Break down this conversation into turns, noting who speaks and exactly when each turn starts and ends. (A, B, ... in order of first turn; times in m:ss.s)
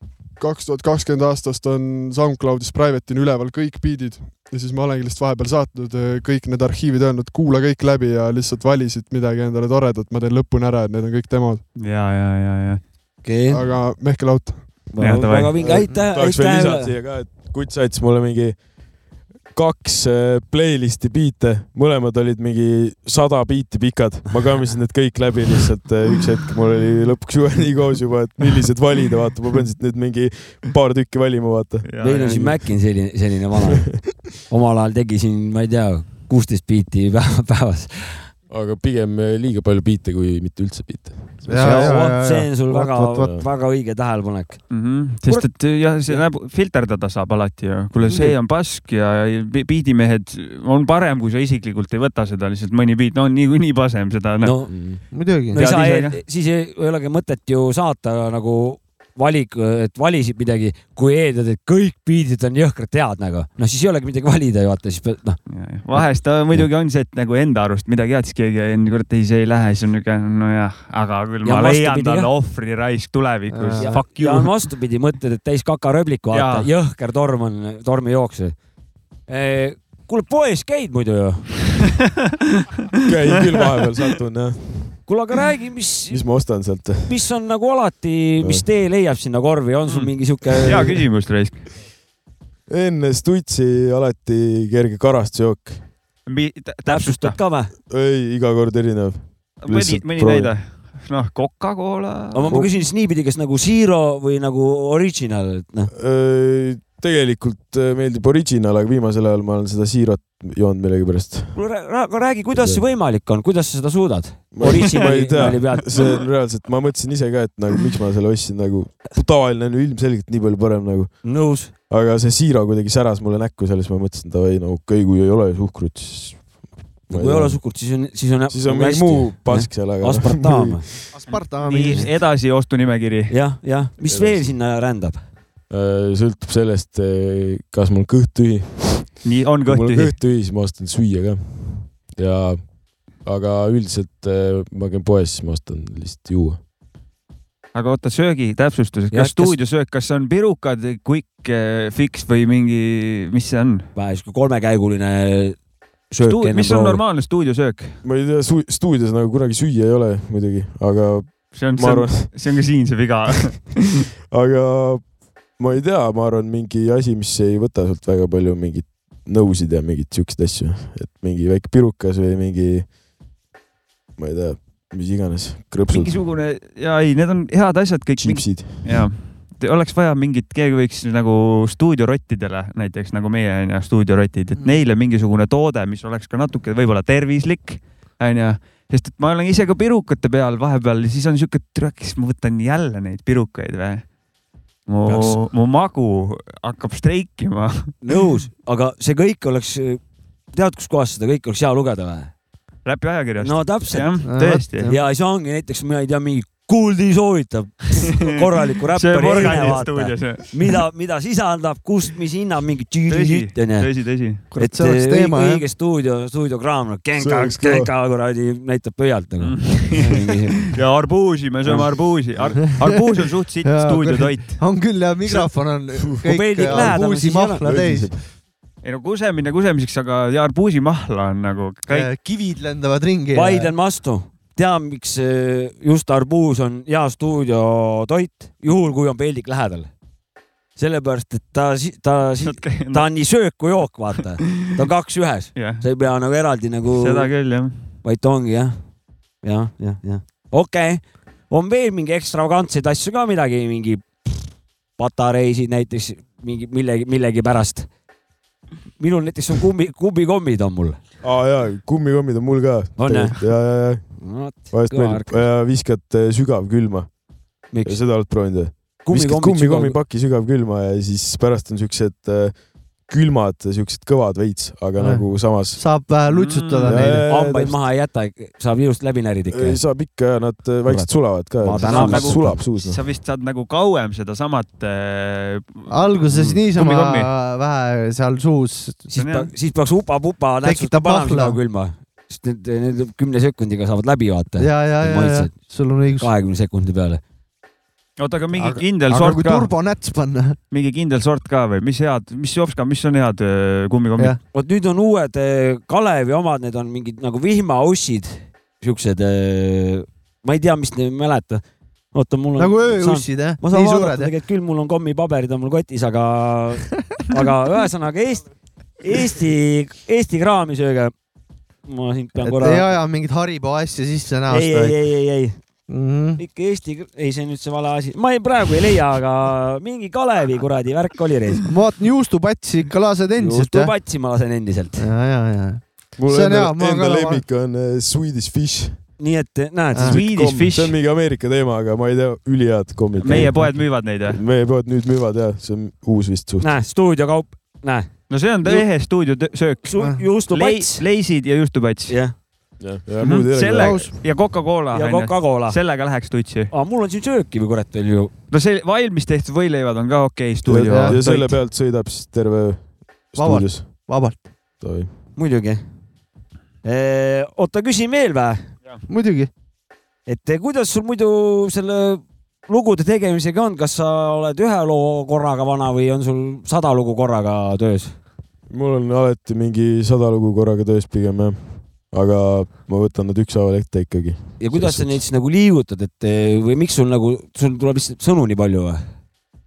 0:00.4-0:11.6 A
0:11.8-0:12.9 B
0:13.2-0:13.6 C
0:13.5-0:14.9 A
0:14.9-0:16.9 C
0:15.0-0:15.5 B
0:15.6-0:18.6 D
0:19.5-0:32.5 D
0:31.8-0:32.5 B
0:32.0-0:38.3 C
0:38.5-0:42.1 D
0:41.5-0:43.3 E
0:41.5-0:46.2 C
0:43.2-0:43.5 D
0:44.7-0:54.8 B
0:48.0-0:48.3 C
0:54.4-0:54.8 C
0:54.7-0:55.0 D
0:55.1-0:55.6 E
0:55.5-1:05.4 C
0:55.5-0:56.2 B
1:05.5-1:14.5 B
1:05.9-1:06.6 C
1:11.4-1:12.3 C
1:13.5-1:13.9 E
1:13.8-1:18.6 C
1:16.3-1:16.7 B
1:19.3-1:21.7 C
1:23.0-1:25.0 D
1:25.0-1:26.5 C
1:26.1-1:27.2 D
1:27.0-1:31.0 C
1:28.4-1:28.7 D
1:29.9-1:31.7 B
1:32.7-1:35.9 D
1:36.2-1:37.4 B
1:36.9-1:37.7 C
1:37.9-1:40.5 D
1:39.6-1:42.5 B
1:42.3-1:45.9 C
1:42.5-1:42.7 D
1:45.9-1:51.6 D
1:51.5-1:56.0 C
1:52.5-1:52.8 D
1:54.5-2:01.3 D
2:01.2-2:01.7 C
2:01.9-2:07.6 D
2:07.1-2:10.9 C
2:08.5-2:10.9 D
2:11.1-2:12.1 E
2:11.3-2:13.3 B
2:13.3-2:15.2 C
2:14.0-2:14.6 D
2:15.7-2:26.6 D
2:19.2-2:20.1 B
2:27.7-2:33.8 B
2:29.1-2:29.6 C
2:33.9-2:35.6 C
2:36.1-2:37.0 C
2:36.2-2:38.0 B
2:38.0-2:42.3 D
2:41.5-2:44.0 B
2:44.3-2:52.9 D
2:54.2-2:56.2 D
2:55.9-3:14.0 B
2:58.2-2:59.1 D
3:14.9-3:17.9 B
3:15.0-3:15.4 C
3:18.0-3:20.0 C
3:20.5-3:22.3 C
3:22.8-3:24.9 B
3:23.4-3:24.3 C
3:24.2-3:25.0 E
3:24.8-3:40.7 C
3:28.9-3:30.8 B
3:33.1-3:34.4 B
3:34.5-3:35.6 E
3:37.1-3:37.9 D
3:39.4-3:44.6 B
3:43.6-3:48.1 E
3:46.0-3:46.9 D
3:46.2-3:47.7 C
3:47.6-3:48.2 D
3:48.8-3:52.1 B
3:51.9-3:53.7 E
3:53.3-3:59.9 C
4:00.8-4:07.3 C
4:02.4-4:03.1 B
4:04.4-4:04.7 B
4:05.5-4:05.8 B
4:06.9-4:07.9 B
4:08.0-4:08.8 C
4:09.4-4:14.4 C
4:15.0-4:17.9 C
4:19.0-4:21.0 C
4:21.2-4:27.1 D
4:23.0-4:23.4 C
4:24.2-4:25.4 C
4:27.7-4:28.0 C
4:27.8-4:35.8 D
4:29.0-4:30.0 C
4:35.0-4:37.2 E
4:36.3-4:37.0 B
4:36.8-4:37.9 D
4:37.3-4:39.8 C
4:39.5-4:43.0 D
4:40.9-4:42.6 C
4:41.8-4:46.2 B
4:45.9-4:49.0 E
4:46.3-4:46.6 C
4:46.7-4:47.3 B
4:49.1-4:57.2 C
4:49.1-4:49.5 B
4:50.6-4:51.6 E
4:54.6-4:56.3 E
4:58.2-4:59.7 B
4:58.5-5:00.6 E
5:00.7-5:04.4 B
5:04.5-5:18.5 C
5:12.6-5:14.3 E
5:19.0-5:21.1 C
5:21.8-5:22.9 C
5:22.4-5:25.0 E
5:24.5-5:25.6 C
5:25.9-5:26.4 E
5:26.4-5:31.7 C
5:31.7-5:33.9 E
5:33.4-5:35.0 C
5:35.0-5:37.4 E
5:36.2-5:39.0 D
5:39.2-5:40.2 C
5:40.0-5:46.7 D
5:40.1-5:40.9 B
5:43.2-5:44.4 B
5:46.6-5:48.9 C
5:48.3-5:49.9 B
5:49.8-5:51.0 C
5:50.5-5:52.4 B
5:52.1-5:52.4 C
5:52.8-5:54.0 D
5:53.2-5:56.7 B
5:53.8-5:54.1 E
5:54.9-5:55.8 C
5:56.7-5:58.3 C
5:58.5-6:01.6 B
6:00.6-6:04.0 D
6:00.9-6:01.2 E
6:03.4-6:04.5 E
6:04.8-6:05.1 D
6:05.4-6:05.8 C
6:06.8-6:08.7 C
6:09.1-6:09.5 E
6:10.2-6:18.1 C
6:18.7-6:25.2 D
6:24.6-6:29.0 C